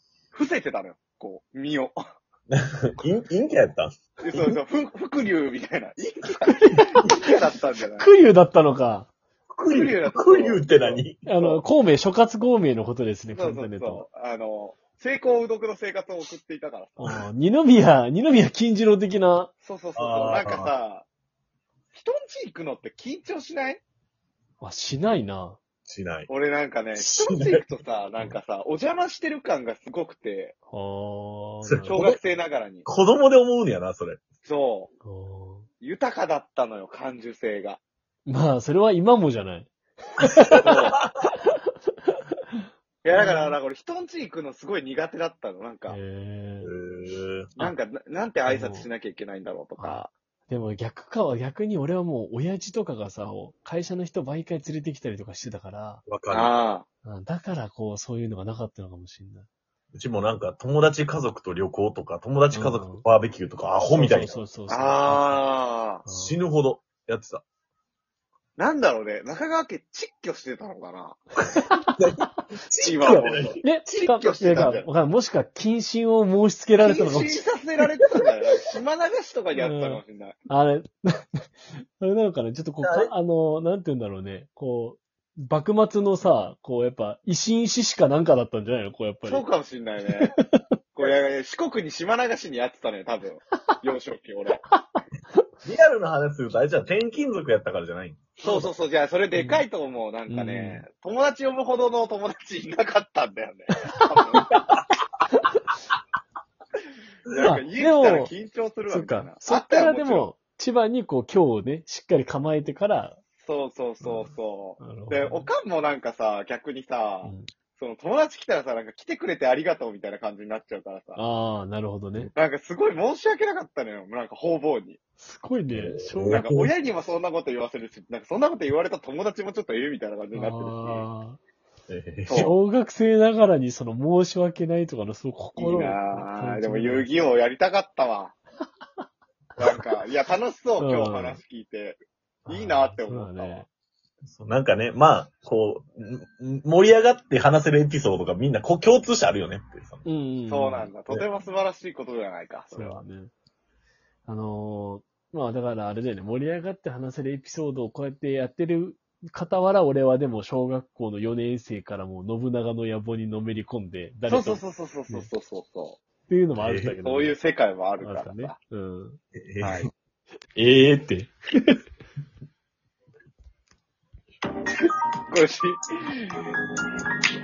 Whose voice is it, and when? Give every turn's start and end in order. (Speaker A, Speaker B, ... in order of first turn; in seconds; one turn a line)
Speaker A: 0.3-1.9
Speaker B: 2.5-4.6
Speaker A: 4.2-8.1
Speaker B: 6.0-6.8
Speaker C: 6.5-7.2
Speaker C: 7.9-9.1
Speaker B: 9.5-11.2
Speaker A: 9.7-11.6
Speaker C: 11.2-14.1
Speaker A: 13.3-17.0
Speaker C: 17.0-19.5
Speaker A: 19.6-21.1
Speaker B: 20.0-20.7
Speaker A: 21.9-23.8
Speaker C: 24.6-25.6
Speaker B: 25.9-26.3
Speaker A: 26.3-30.6
Speaker B: 26.9-27.6
Speaker C: 30.7-32.2
Speaker B: 31.6-32.2
Speaker A: 31.9-32.9
Speaker B: 32.9-34.2
Speaker A: 34.4-34.9
Speaker C: 35.0-35.7
Speaker A: 35.8-37.8
Speaker C: 38.3-43.6
Speaker B: 40.5-41.2
Speaker A: 40.6-41.0
Speaker A: 43.0-46.0
Speaker C: 45.9-46.7
Speaker B: 46.6-47.5
Speaker A: 47.6-50.1
Speaker C: 48.5-48.9
Speaker C: 49.8-56.0
Speaker B: 56.1-56.5
Speaker A: 56.3-56.9
Speaker C: 57.0-59.5
Speaker B: 59.9-64.4
Speaker C: 62.5-63.0
Speaker C: 63.9-65.5
Speaker A: 64.7-66.0
Speaker C: 66.0-66.4
Speaker B: 66.1-67.4
Speaker A: 68.6-71.2
Speaker C: 71.5-71.9
Speaker B: 72.0-74.7
Speaker A: 72.8-74.9
Speaker C: 72.9-77.4
Speaker A: 76.8-80.4
Speaker C: 79.5-89.5
Speaker B: 82.8-83.1
Speaker A: 89.2-90.4
Speaker C: 90.2-90.6
Speaker A: 91.0-94.7
Speaker B: 95.6-98.4
Speaker A: 98.4-104.6
Speaker C: 98.4-98.7
Speaker C: 99.3-99.7
Speaker C: 100.3-100.8
Speaker C: 103.9-104.7
Speaker A: 107.3-110.3
Speaker C: 107.4-108.3
Speaker C: 108.9-113.2
Speaker A: 113.4-121.2
Speaker C: 114.0-115.5
Speaker C: 121.2-122.3
Speaker A: 122.3-125.0
Speaker C: 125.2-126.5
Speaker B: 125.7-126.7
Speaker A: 126.3-131.1
Speaker C: 130.3-131.4
Speaker B: 131.9-132.5
Speaker A: 132.3-132.6
Speaker C: 132.3-137.3
Speaker A: 135.6-138.3
Speaker A: 139.6-143.7
Speaker C: 140.8-141.4
Speaker C: 142.4-143.7
Speaker B: 144.3-150.1
Speaker C: 150.1-151.3
Speaker A: 150.5-153.0
Speaker C: 152.7-153.3
Speaker C: 154.3-165.3
Speaker A: 164.3-166.0
Speaker C: 166.3-167.4
Speaker B: 166.6-166.9
Speaker A: 167.0-168.6
Speaker C: 168.0-169.2
Speaker B: 169.5-169.9
Speaker A: 169.6-169.9
Speaker C: 170.6-171.8
Speaker A: 175.3-176.5